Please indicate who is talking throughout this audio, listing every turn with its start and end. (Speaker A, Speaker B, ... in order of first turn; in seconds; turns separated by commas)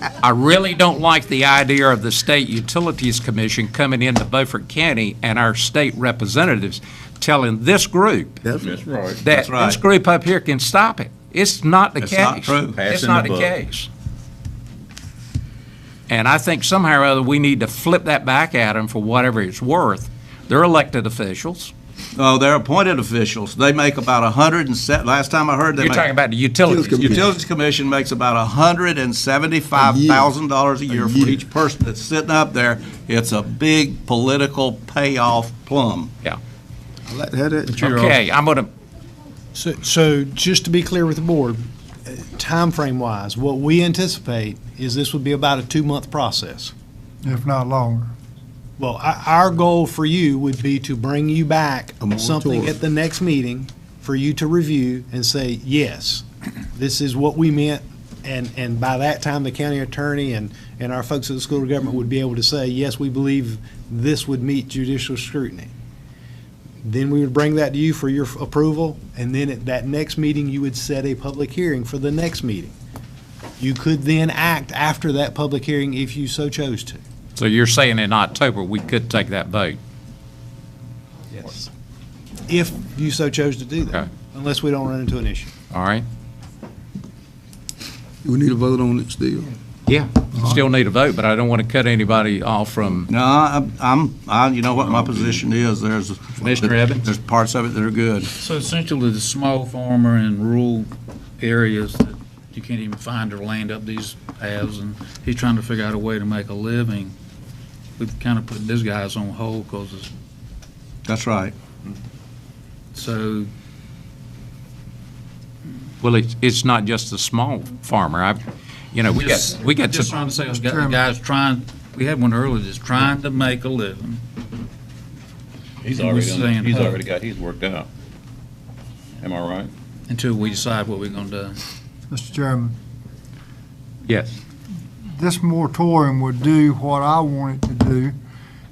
Speaker A: 0.2-8.4, Speaker B: 8.4-8.7, Speaker C: 8.6-9.2, Speaker A: 9.2-13.9, Speaker D: 9.3-9.8, Speaker D: 12.0-12.8, Speaker C: 12.7-13.5, Speaker A: 16.1-21.7, Speaker D: 22.1-26.1, Speaker A: 25.8-27.3, Speaker B: 26.7-27.2, Speaker D: 27.0-36.1, Speaker B: 29.8-30.3, Speaker B: 30.9-31.4, Speaker B: 37.1-38.1, Speaker A: 37.8-38.7, Speaker E: 39.5-46.7, Speaker F: 47.2-48.1, Speaker E: 48.8-65.7, Speaker B: 52.0-52.7, Speaker E: 66.8-72.7, Speaker E: 73.6-77.0, Speaker A: 77.4-79.8, Speaker E: 81.3-81.7, Speaker E: 82.5-85.5, Speaker A: 85.7-86.0, Speaker B: 88.2-89.5, Speaker A: 89.8-93.1, Speaker D: 93.1-98.3, Speaker A: 96.4-97.0, Speaker G: 96.6-97.0, Speaker G: 98.4-107.1, Speaker G: 108.0-110.1, Speaker D: 111.0-111.5, Speaker G: 112.9-113.5, Speaker A: 116.0-118.4, Speaker A: 118.9-120.2, Speaker G: 119.1-124.2, Speaker F: 120.6-121.0, Speaker C: 125.8-127.9, Speaker G: 125.9-127.0, Speaker C: 129.2-129.7, Speaker G: 130.1-131.6, Speaker F: 132.1-132.8, Speaker A: 134.1-134.3, Speaker F: 135.1-138.2